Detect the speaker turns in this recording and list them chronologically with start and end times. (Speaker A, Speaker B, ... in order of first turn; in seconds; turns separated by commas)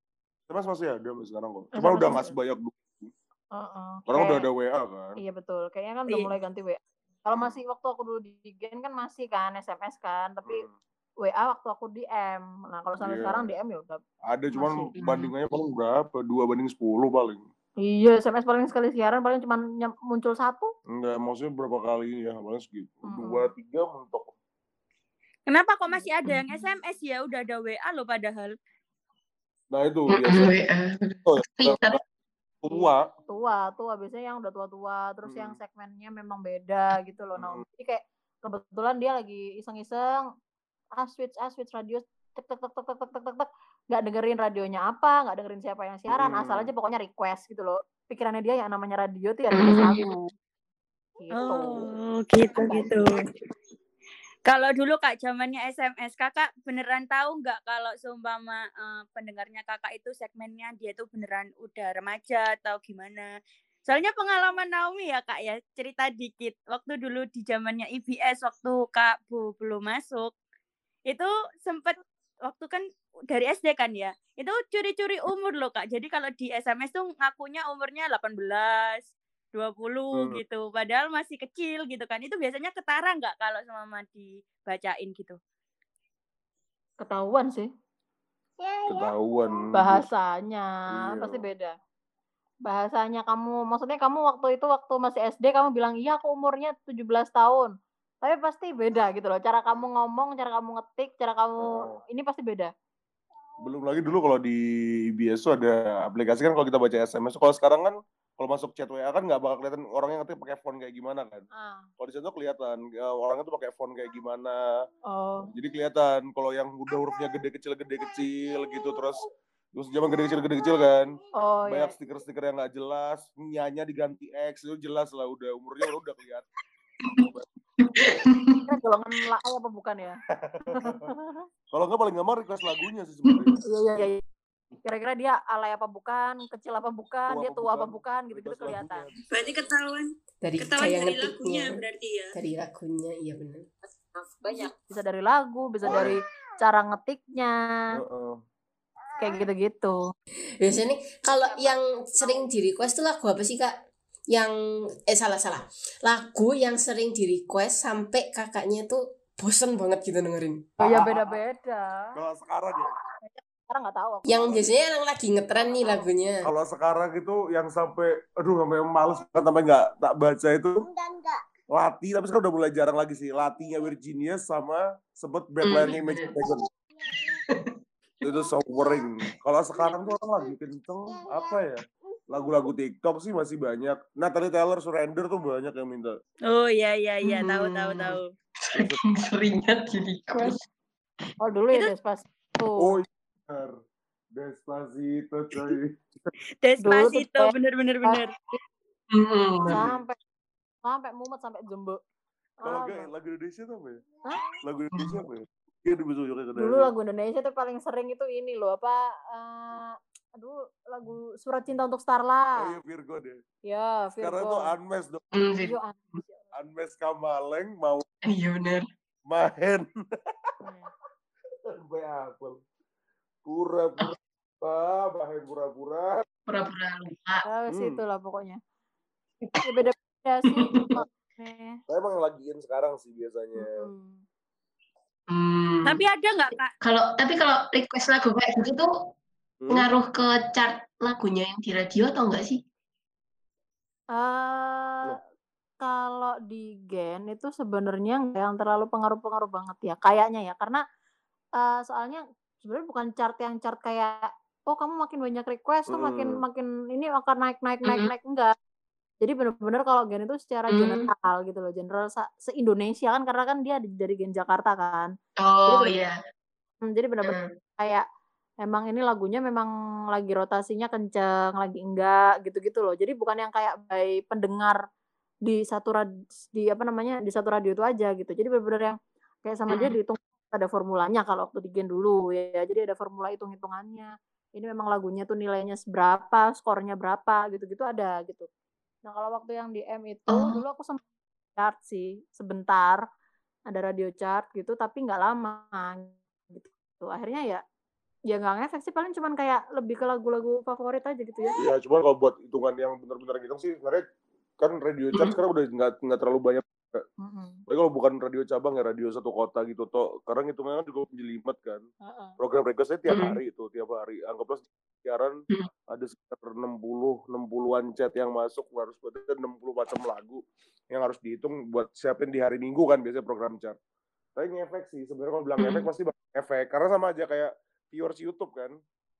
Speaker A: 0.5-3.1, Speaker B: 1.7-2.3, Speaker B: 3.5-4.5, Speaker A: 4.1-5.2, Speaker B: 5.2-10.6, Speaker A: 10.4-10.7, Speaker B: 11.2-14.0, Speaker A: 13.0-13.5, Speaker A: 14.3-17.4, Speaker B: 14.5-14.9, Speaker C: 14.9-15.3, Speaker B: 17.8-20.7, Speaker A: 20.9-24.3, Speaker B: 23.0-23.5, Speaker D: 25.5-28.5, Speaker A: 29.7-30.6, Speaker C: 30.1-32.0, Speaker A: 31.2-32.0, Speaker A: 32.6-33.1, Speaker B: 32.7-40.2, Speaker A: 35.2-35.5, Speaker A: 37.4-37.6, Speaker B: 41.0-50.3, Speaker A: 46.1-46.7, Speaker C: 49.5-50.1, Speaker B: 51.2-51.9, Speaker D: 51.4-53.2, Speaker B: 52.5-53.1, Speaker D: 54.5-63.3, Speaker D: 63.9-70.3, Speaker D: 71.1-85.4, Speaker A: 80.1-80.4, Speaker B: 87.0-87.7, Speaker A: 88.8-90.0, Speaker B: 89.7-91.7, Speaker A: 90.9-91.4, Speaker B: 92.6-97.7, Speaker B: 98.2-102.7, Speaker A: 101.6-102.0, Speaker A: 103.6-111.5, Speaker B: 111.5-111.9, Speaker A: 112.0-114.9, Speaker B: 115.1-115.5, Speaker A: 115.5-126.5, Speaker B: 121.4-121.9, Speaker C: 127.0-128.6, Speaker B: 128.7-130.2, Speaker A: 130.3-131.1, Speaker B: 130.8-131.4, Speaker A: 131.7-133.6, Speaker C: 133.3-133.6, Speaker B: 133.6-134.2, Speaker B: 134.8-139.1, Speaker A: 137.3-139.5, Speaker D: 139.3-142.3, Speaker E: 140.4-141.8, Speaker E: 142.3-143.7, Speaker B: 144.4-147.6, Speaker A: 145.8-146.2, Speaker A: 147.9-148.4, Speaker B: 149.2-150.1, Speaker E: 150.6-153.7, Speaker B: 151.3-152.2, Speaker E: 154.3-160.7, Speaker B: 160.8-162.2, Speaker C: 160.8-161.1, Speaker A: 162.1-162.9, Speaker B: 163.2-164.7, Speaker E: 164.2-166.5, Speaker A: 166.4-170.9, Speaker A: 171.7-176.7, Speaker C: 175.6-176.5, Speaker C: 177.4-177.8, Speaker A: 178.2-186.2, Speaker D: 186.5-188.3, Speaker C: 187.2-190.6, Speaker A: 188.7-189.0, Speaker B: 191.4-193.0, Speaker A: 192.8-193.8, Speaker A: 194.3-196.3, Speaker D: 196.6-198.3, Speaker B: 196.8-197.5, Speaker B: 198.0-198.6, Speaker C: 199.1-199.8, Speaker B: 199.7-200.2, Speaker A: 199.7-200.0, Speaker B: 200.8-202.0, Speaker B: 202.6-203.1, Speaker A: 202.6-204.0, Speaker B: 204.2-204.6, Speaker A: 204.6-206.9, Speaker C: 204.9-205.2, Speaker B: 206.6-212.7, Speaker A: 212.6-213.4, Speaker B: 213.7-214.7, Speaker A: 214.2-215.3, Speaker C: 215.3-216.2, Speaker B: 215.6-216.5, Speaker A: 216.5-218.0, Speaker C: 218.2-218.8, Speaker A: 219.3-220.3, Speaker B: 220.6-220.9, Speaker A: 221.8-222.6, Speaker A: 223.4-226.2, Speaker C: 226.5-227.4, Speaker B: 227.4-228.6, Speaker A: 227.7-228.0, Speaker B: 229.6-231.8, Speaker C: 230.6-231.0, Speaker A: 231.9-233.8, Speaker B: 233.6-234.2, Speaker C: 235.3-236.0, Speaker D: 235.8-236.7, Speaker C: 236.8-239.1, Speaker A: 239.6-239.9, Speaker C: 239.7-242.6, Speaker B: 244.1-245.2, Speaker B: 245.8-250.8, Speaker B: 251.6-258.5, Speaker A: 255.9-256.4, Speaker C: 257.8-258.1, Speaker B: 259.2-265.1, Speaker C: 260.7-261.1, Speaker C: 265.4-266.2, Speaker B: 265.6-266.0, Speaker B: 266.8-268.0, Speaker C: 267.2-267.5, Speaker B: 268.6-274.8, Speaker B: 275.4-288.5, Speaker C: 279.7-279.9, Speaker B: 289.1-291.0, Speaker C: 290.3-290.6, Speaker B: 291.6-293.0, Speaker B: 293.7-297.6, Speaker B: 298.3-301.6, Speaker A: 301.6-304.1, Speaker A: 304.6-307.0, Speaker B: 307.2-307.6, Speaker A: 307.7-311.9, Speaker B: 312.0-312.4, Speaker A: 312.4-323.8, Speaker C: 313.1-313.4, Speaker A: 324.4-328.8, Speaker C: 325.6-325.9